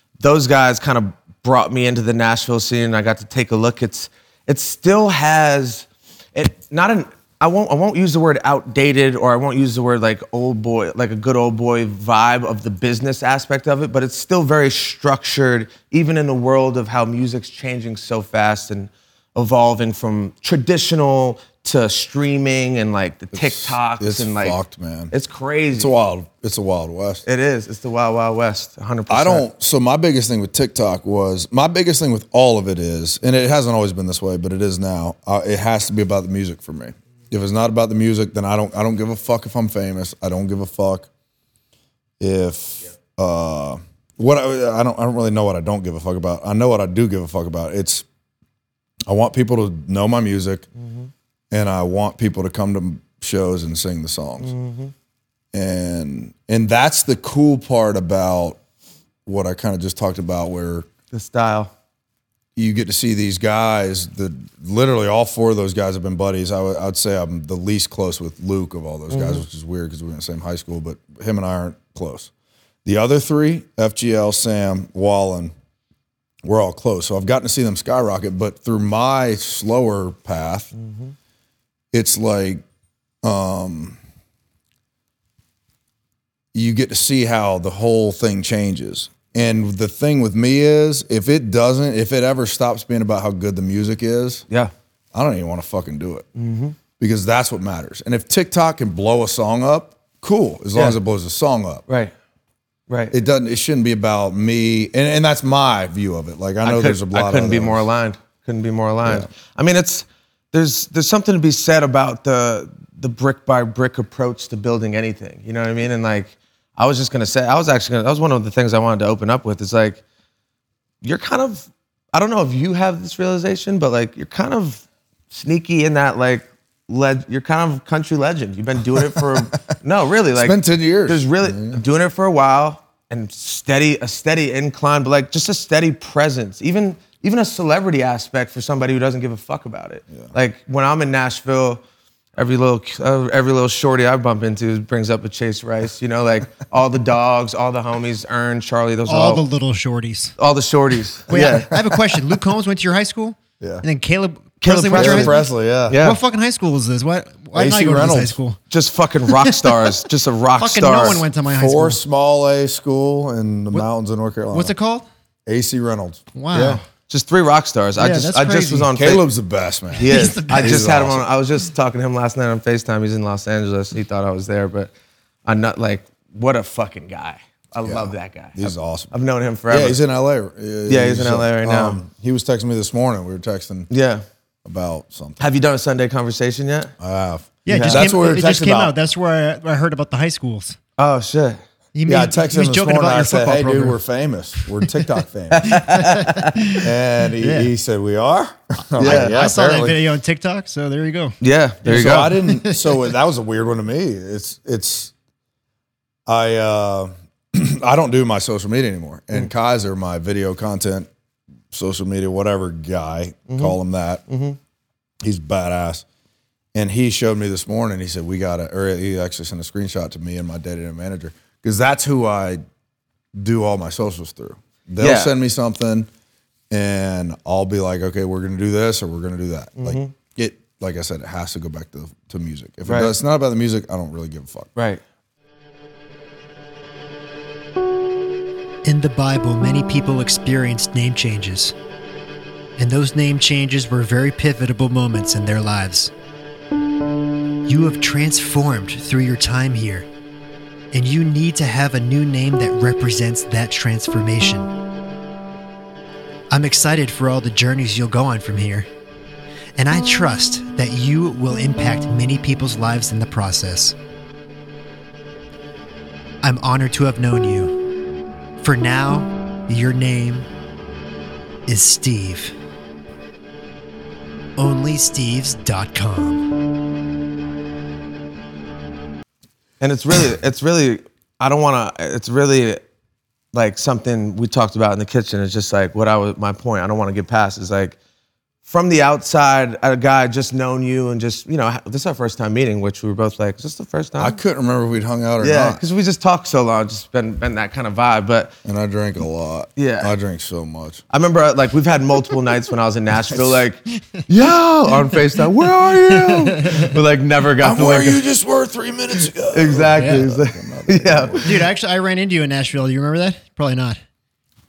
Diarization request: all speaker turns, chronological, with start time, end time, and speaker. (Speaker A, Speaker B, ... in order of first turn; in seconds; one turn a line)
Speaker A: 0.2-24.6
Speaker B: 23.3-25.1
Speaker A: 25.1-25.9
Speaker B: 25.7-27.2
Speaker A: 27.2-29.4
Speaker B: 29.1-41.1
Speaker B: 42.2-48.0
Speaker B: 49.0-50.6
Speaker A: 50.8-51.1
Speaker B: 51.5-54.5
Speaker A: 54.4-54.9
Speaker B: 55.5-58.6
Speaker B: 59.2-60.9
Speaker A: 61.1-61.7
Speaker B: 62.5-72.3
Speaker A: 69.1-69.4
Speaker B: 72.8-75.5
Speaker B: 76.4-80.7
Speaker A: 80.7-81.1
Speaker B: 81.9-82.6
Speaker B: 83.2-84.0
Speaker B: 86.5-94.4
Speaker B: 95.1-96.2
Speaker A: 96.3-96.8
Speaker B: 97.0-101.8
Speaker A: 101.9-102.1
Speaker A: 102.9-103.1
Speaker B: 103.1-107.8
Speaker A: 106.6-120.0
Speaker A: 121.0-141.8
Speaker B: 129.2-129.4
Speaker B: 130.3-131.8
Speaker A: 142.3-149.4
Speaker C: 149.1-150.3
Speaker A: 150.4-152.3
Speaker C: 151.3-155.4
Speaker B: 153.6-153.8
Speaker A: 154.6-156.2
Speaker B: 154.9-156.0
Speaker C: 155.9-158.6
Speaker B: 157.5-158.4
Speaker A: 158.7-161.2
Speaker C: 159.3-159.9
Speaker C: 160.6-162.0
Speaker B: 161.5-164.7
Speaker C: 164.5-165.1
Speaker B: 165.4-166.3
Speaker C: 166.3-166.8
Speaker A: 166.5-169.2
Speaker C: 168.0-168.9
Speaker B: 168.9-171.2
Speaker A: 170.0-174.9
Speaker C: 170.0-170.8
Speaker A: 175.4-180.0
Speaker B: 177.8-179.1
Speaker B: 179.7-183.9
Speaker A: 180.9-182.0
Speaker A: 183.9-184.2
Speaker B: 184.6-185.4
Speaker A: 185.4-186.9
Speaker B: 187.0-188.9
Speaker C: 187.6-190.8
Speaker A: 187.7-188.0
Speaker A: 191.0-191.6
Speaker C: 191.9-194.0
Speaker B: 192.1-195.9
Speaker A: 195.5-196.6
Speaker C: 195.7-196.8
Speaker B: 196.7-199.9
Speaker C: 197.4-197.7
Speaker C: 199.0-201.3
Speaker A: 199.0-199.4
Speaker A: 201.4-202.4
Speaker B: 201.8-205.1
Speaker C: 202.4-203.0
Speaker B: 206.2-211.1
Speaker B: 211.7-214.2
Speaker A: 213.5-213.8
Speaker A: 214.3-214.6
Speaker B: 215.2-216.0
Speaker B: 216.7-222.6
Speaker B: 223.3-226.1
Speaker A: 225.0-225.3
Speaker B: 226.7-234.7
Speaker A: 229.8-230.1
Speaker A: 232.8-233.1
Speaker A: 234.8-235.0
Speaker C: 238.8-241.7
Speaker C: 242.8-246.1
Speaker C: 247.7-250.1
Speaker C: 250.9-254.7
Speaker C: 256.5-258.9
Speaker C: 259.8-263.9
Speaker C: 266.4-267.8
Speaker C: 268.6-270.5
Speaker C: 271.7-272.5
Speaker C: 274.6-276.5
Speaker A: 279.8-282.8
Speaker A: 283.5-288.0
Speaker A: 288.6-294.4
Speaker B: 294.2-295.8
Speaker A: 295.4-298.5
Speaker B: 298.6-301.0
Speaker A: 299.8-300.1
Speaker A: 301.1-308.2
Speaker C: 306.1-306.9
Speaker B: 307.6-311.6
Speaker A: 309.5-311.6
Speaker C: 309.9-310.2
Speaker C: 311.4-314.0